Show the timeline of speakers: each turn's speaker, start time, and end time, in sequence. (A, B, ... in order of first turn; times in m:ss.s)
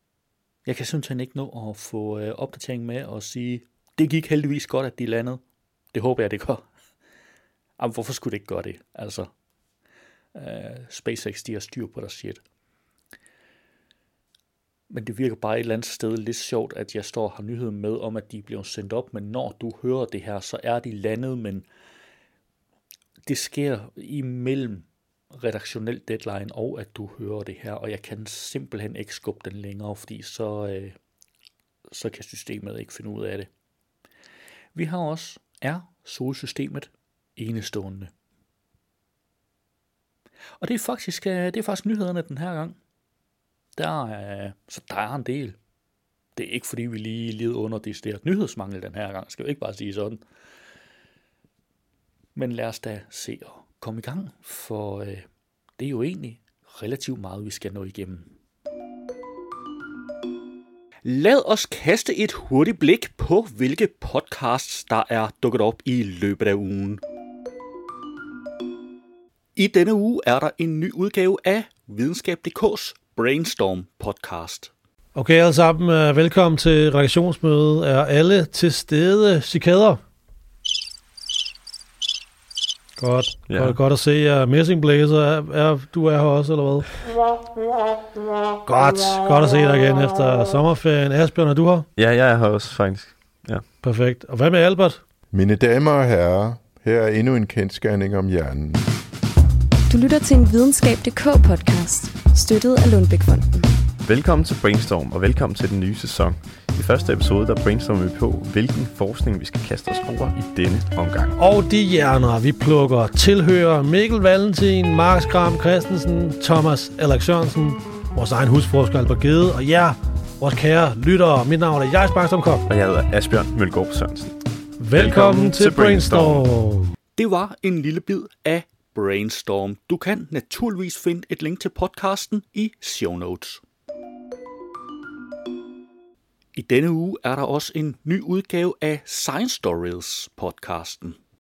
0:00.6-0:05.4 A
0:05.9-0:06.7 A
0:07.8-0:09.3 A
0:10.3-0:12.4 A
0:14.9-0:21.7 A
0:23.3-0:31.0 A
0:31.9-0:33.5 A
0:34.8-0:38.1 A
0:40.6-0:42.8 A
0:43.8-0:45.6 A
0:46.4-0:50.2 A
0:52.4-0:55.3 A
0:55.8-0:58.3 A
1:01.0-1:07.0 A
1:09.6-1:14.7 A
1:15.2-1:20.0 B
1:23.0-1:27.0 B
1:23.4-1:23.8 C
1:28.6-1:31.9 B
1:32.0-1:33.7 C
1:33.8-1:35.1 B
1:35.3-1:38.8 D
1:39.9-1:43.7 E
1:44.0-1:51.3 C
1:51.4-2:02.7 B
2:02.7-2:06.5 C
2:04.8-2:06.9 B
2:07.2-2:13.6 A
2:16.6-2:21.2 A